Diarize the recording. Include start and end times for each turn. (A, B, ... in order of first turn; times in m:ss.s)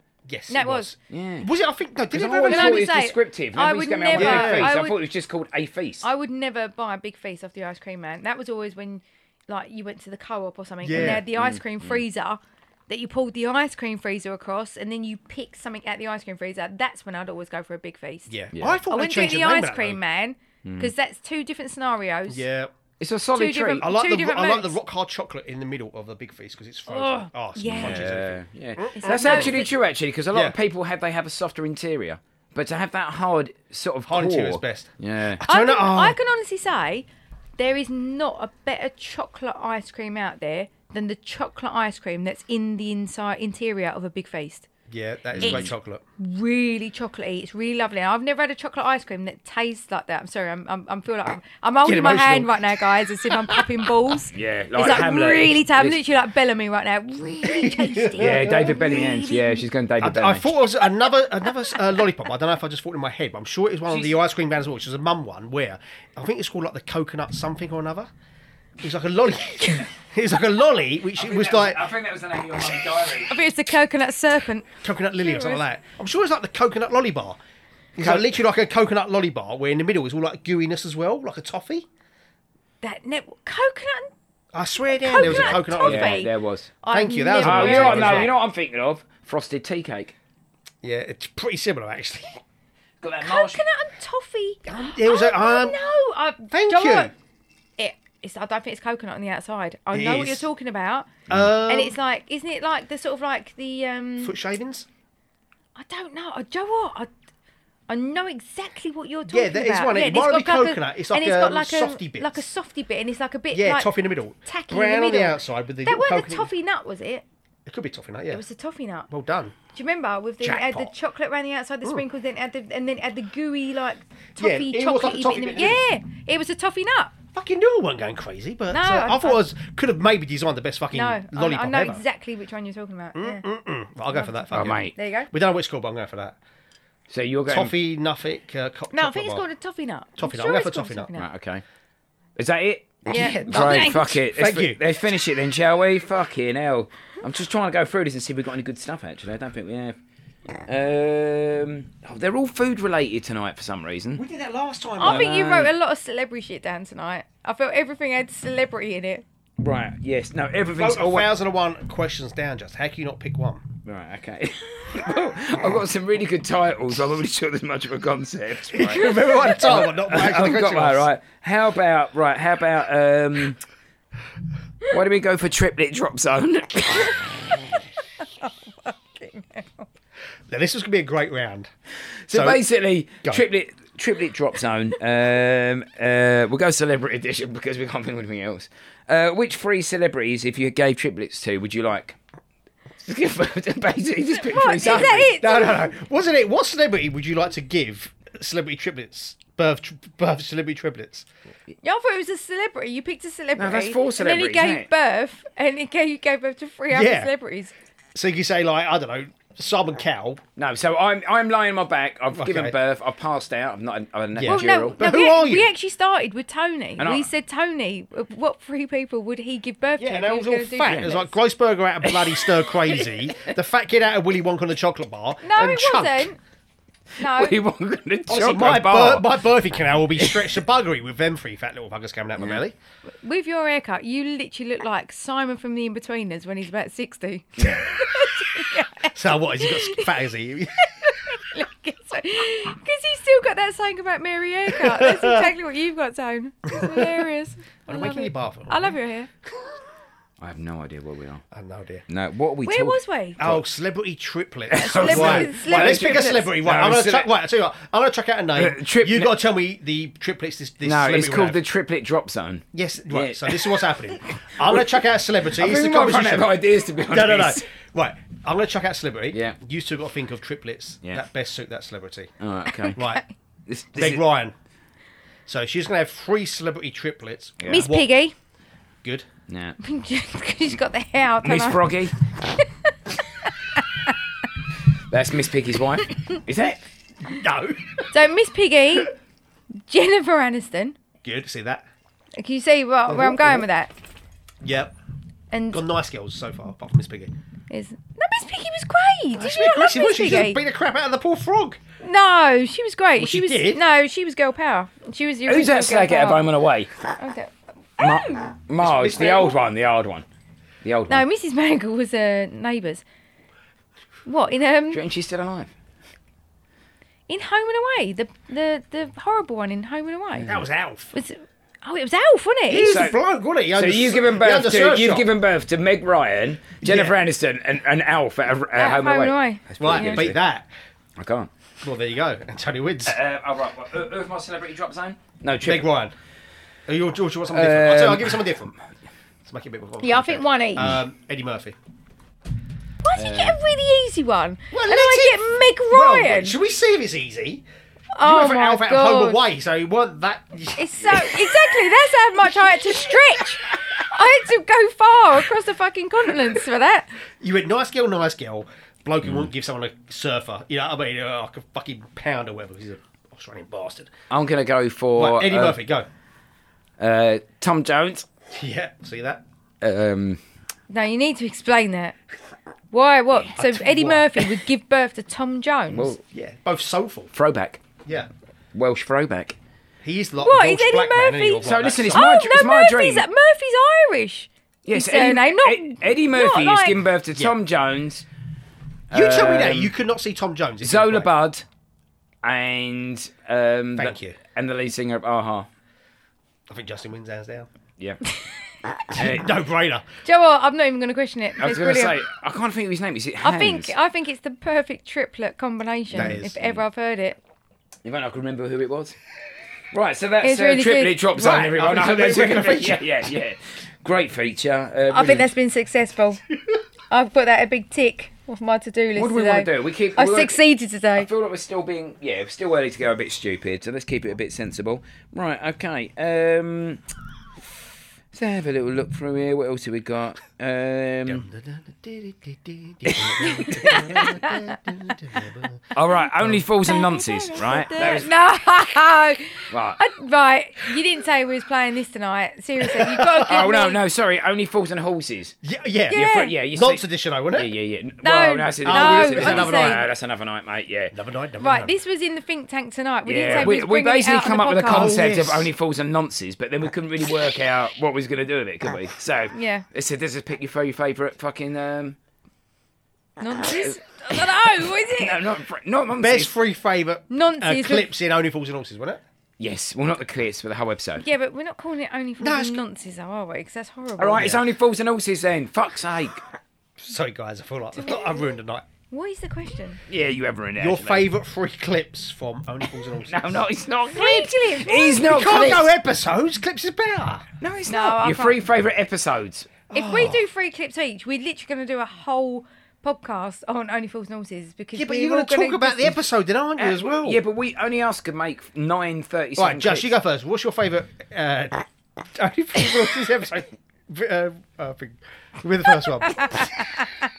0:00.3-0:03.0 A
0:00.5-0:00.9 B
0:01.1-0:01.5 C
0:02.1-0:06.0 C
0:02.5-0:05.0 B
0:04.2-0:04.8 A
0:06.0-0:18.3 B
0:10.8-0:11.3 A
0:10.9-0:12.0 C
0:18.3-0:20.0 A
0:18.5-0:18.8 C
0:18.9-0:22.4 B
0:20.6-0:20.9 C
0:22.3-0:22.7 A
0:23.0-0:23.9 C
0:23.3-0:24.8 B
0:23.8-0:29.6 A
0:26.9-0:28.1 B
0:27.7-0:35.4 C
0:29.0-0:29.7 B
0:34.1-0:36.2 A
0:35.5-0:37.1 B
0:37.6-0:44.7 B
0:44.9-0:46.0 A
0:45.4-0:45.7 C
0:46.2-0:59.6 B
0:51.8-0:53.7 A
0:54.3-0:56.0 C
0:57.4-0:59.2 A
0:58.2-1:00.6 C
1:00.0-1:08.1 A
1:08.8-1:11.8 A
1:11.2-1:13.3 C
1:13.3-1:15.6 B
1:14.8-1:17.4 A
1:18.0-1:21.9 A
1:18.0-1:18.3 C
1:22.8-1:24.1 B
1:24.5-1:26.3 A
1:24.9-1:28.3 B
1:25.2-1:26.7 C
1:26.9-1:28.3 A
1:27.4-1:30.2 C
1:30.8-1:32.4 A
1:33.0-1:33.6 C
1:33.2-1:37.1 B
1:34.7-1:35.8 A
1:36.5-1:37.1 A
1:37.8-1:44.4 B
1:39.9-1:40.5 A
1:41.3-1:42.0 A
1:44.2-1:44.9 A
1:45.8-1:47.1 B
1:47.9-1:53.9 B
1:49.3-1:52.4 A
1:53.5-1:56.5 A
1:54.5-1:57.2 B
1:57.7-1:58.4 A
1:58.3-1:59.1 B
1:59.1-1:59.6 A
1:59.7-2:07.1 B
2:00.4-2:00.9 A
2:04.4-2:05.8 A
2:07.3-2:12.0 A
2:08.7-2:09.4 B
2:10.9-2:13.4 B
2:13.2-2:16.4 A
2:14.1-2:15.3 B
2:14.5-2:14.9 C
2:17.1-2:17.8 C
2:17.5-2:19.4 A
2:18.9-2:21.3 B
2:20.2-2:21.1 A
2:21.2-2:21.6 C
2:22.4-2:30.0 C
2:23.1-2:24.8 A
2:23.1-2:24.2 B
2:30.7-2:34.2 C
2:34.2-2:35.4 A
2:35.0-2:39.2 B
2:35.0-2:35.7 C
2:39.6-2:41.3 C
2:40.7-2:43.7 A
2:43.8-2:53.6 C
2:48.7-2:51.1 A
2:49.0-2:49.6 B
2:54.9-2:57.4 C
2:58.4-2:59.9 B
3:00.5-3:01.7 A
3:02.3-3:12.2 C
3:02.3-3:02.6 A
3:13.0-3:15.4 C
3:14.4-3:15.9 B
3:14.8-3:21.3 A
3:21.8-3:27.7 B
3:23.6-3:24.9 C
3:26.9-3:27.3 A
3:28.2-3:30.4 A
3:30.6-3:35.1 C
3:32.3-3:32.8 A
3:34.4-3:35.7 A
3:34.5-3:41.3 B
3:37.0-3:37.3 C
3:40.0-3:46.3 A
3:45.4-3:46.4 B
3:47.2-3:47.6 B
3:47.2-3:49.4 C
3:48.3-3:52.8 A
3:50.2-3:50.4 C
3:53.2-4:00.2 B
3:57.6-3:57.9 C
3:59.1-4:01.3 A
4:01.0-4:09.3 B
4:04.7-4:05.5 A
4:06.7-4:07.2 A
4:07.9-4:09.0 A
4:10.4-4:11.4 C
4:11.5-4:12.0 A
4:12.1-4:13.6 C
4:12.6-4:13.4 B
4:13.4-4:21.6 A
4:14.7-4:17.3 C
4:14.8-4:16.5 B
4:18.6-4:19.4 C
4:20.8-4:23.9 C
4:22.7-4:32.3 A
4:24.4-4:24.9 C
4:25.5-4:27.7 C
4:29.3-4:29.6 C
4:32.4-4:33.0 C
4:32.7-4:33.2 B
4:33.0-4:33.2 A
4:33.7-4:34.2 C
4:34.0-4:34.6 A
4:35.5-4:38.1 A
4:37.6-4:37.9 C
4:37.7-4:38.3 B
4:39.5-4:39.8 C
4:39.8-4:41.9 B
4:41.4-4:42.1 C
4:43.4-4:44.1 B
4:45.1-4:46.8 C
4:47.2-4:48.1 A
4:48.1-4:49.1 B
4:49.9-4:51.0 B
4:51.2-4:51.8 A
4:52.4-4:53.9 B
4:53.1-4:53.7 A
4:54.6-4:54.9 A
4:55.5-4:55.8 B
4:55.7-4:57.3 A
4:57.7-5:00.6 B
4:59.4-5:01.8 A
5:02.0-5:06.4 B
5:03.2-5:03.8 A
5:05.5-5:06.9 C
5:07.2-5:08.5 B
5:08.0-5:10.3 C
5:08.8-5:09.6 A
5:10.8-5:11.2 C
5:11.1-5:13.0 B
5:14.3-5:15.0 B
5:14.9-5:15.7 C
5:17.3-5:20.5 B
5:20.4-5:21.2 A
5:21.1-5:23.1 B
5:22.7-5:25.3 A
5:22.8-5:23.2 C
5:23.7-5:30.4 C
5:26.8-5:27.2 A
5:28.8-5:30.3 B
5:29.8-5:30.7 A
5:31.2-5:31.5 C
5:31.8-5:33.2 A
5:33.0-5:35.9 C
5:35.6-5:36.1 A
5:36.9-5:38.8 A
5:37.5-5:38.6 C
5:39.4-5:41.8 A
5:40.0-5:40.9 B
5:43.0-5:46.6 B
5:43.2-5:43.6 C
5:44.7-5:47.6 A
5:48.2-5:49.4 B
5:48.2-5:51.8 A
5:50.8-5:57.1 B
5:57.4-6:04.1 A
5:59.2-5:59.5 C
6:04.3-6:05.8 C
6:05.1-6:06.1 A
6:07.0-6:08.3 C
6:08.5-6:09.4 A
6:09.8-6:10.4 C
6:10.9-6:12.2 B
6:12.9-6:16.1 B
6:13.6-6:14.5 A
6:15.9-6:16.2 C
6:16.2-6:17.3 A
6:17.3-6:17.8 C
6:18.7-6:19.6 C
6:20.0-6:22.3 A
6:20.4-6:27.0 B
6:21.6-6:23.2 C
6:24.9-6:28.3 C
6:29.1-6:29.9 C
6:29.1-6:31.3 A
6:30.8-6:31.6 C
6:32.4-6:35.7 C
6:34.0-6:34.4 A
6:36.7-6:37.7 A
6:39.1-6:39.5 C
6:39.2-6:40.1 A
6:40.2-6:42.2 B
6:41.6-6:43.9 C
6:43.4-6:47.4 B
6:46.1-6:46.8 C
6:46.1-6:46.6 A
6:48.0-6:49.2 C
6:49.9-6:55.5 C
6:50.4-6:51.2 B
6:51.3-6:53.1 A
6:55.1-6:56.4 B
6:57.1-7:01.3 B
6:59.2-7:00.6 C
7:01.2-7:07.0 C
7:08.3-7:11.5 C
7:11.3-7:15.8 A
7:13.0-7:14.2 C
7:13.5-7:14.8 B
7:15.9-7:18.3 C
7:16.8-7:24.0 B
7:19.7-7:20.0 C
7:22.8-7:23.6 A
7:23.4-7:25.6 C
7:25.6-7:27.7 A
7:26.1-7:26.5 B
7:26.1-7:31.1 C
7:28.2-7:30.0 B
7:28.8-7:30.1 A
7:31.1-7:31.9 A
7:31.6-7:35.2 B
7:33.2-7:42.2 C
7:34.9-7:35.7 A
7:39.5-7:39.9 B
7:43.4-7:45.5 B
7:43.7-7:44.0 C
7:45.2-7:46.5 C
7:46.2-7:49.2 A
7:47.3-7:48.1 B
7:49.6-7:51.2 C
7:51.2-7:54.6 B
7:52.4-7:52.8 A
7:54.2-7:56.4 C
7:57.0-7:58.9 A
7:58.0-7:58.4 B
7:59.1-8:00.0 B
8:00.1-8:01.3 C
8:00.8-8:03.6 A
8:03.2-8:05.9 C
8:04.1-8:05.7 B
8:05.1-8:07.4 A
8:07.6-8:09.7 C
8:07.9-8:08.7 B
8:09.9-8:10.4 A
8:09.9-8:16.2 B
8:15.0-8:17.4 A
8:16.8-8:20.1 C
8:19.6-8:26.7 A
8:26.3-8:26.7 B